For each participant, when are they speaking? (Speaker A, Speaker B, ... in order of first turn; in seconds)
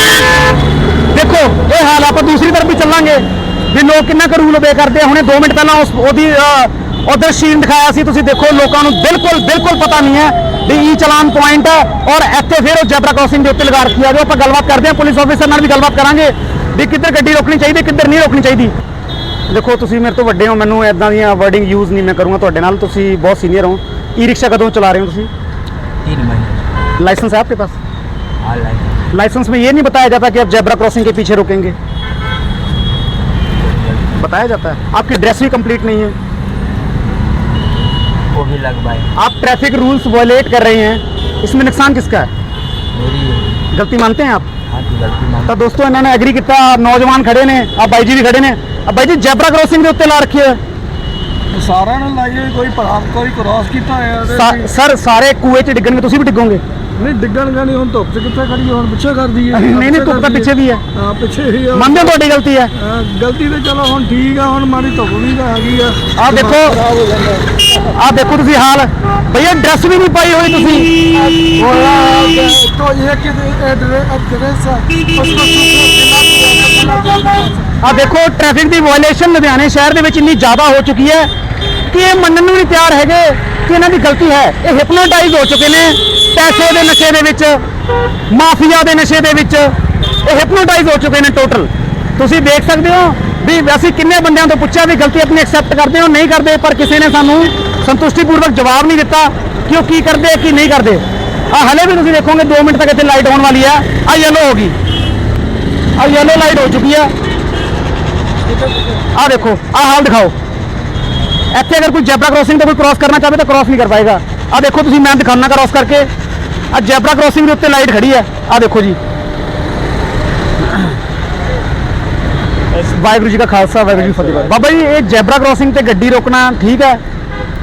Speaker A: 1.1-18.7, 19.5-25.3, 27.0-27.8, 29.1-31.8, 34.2-36.1, 39.1-42.3, 43.7-44.5, 45.5-50.6, 54.3-56.6, 59.5-60.8, 61.7-62.7, 66.2-66.8, 67.8-71.0, 77.8-81.3, 81.9-87.6, 88.3-89.7, 90.2-104.8, 106.0-107.1, 109.1-110.3, 111.5-116.1, 116.7-119.0, 122.7-127.0
Speaker B: 26.0-26.7, 28.4-29.0, 33.6-34.2, 38.3-39.1, 42.9-43.7, 44.7-45.5
Speaker C: 51.5-54.7, 57.0-62.2, 62.8-67.7, 71.2-77.8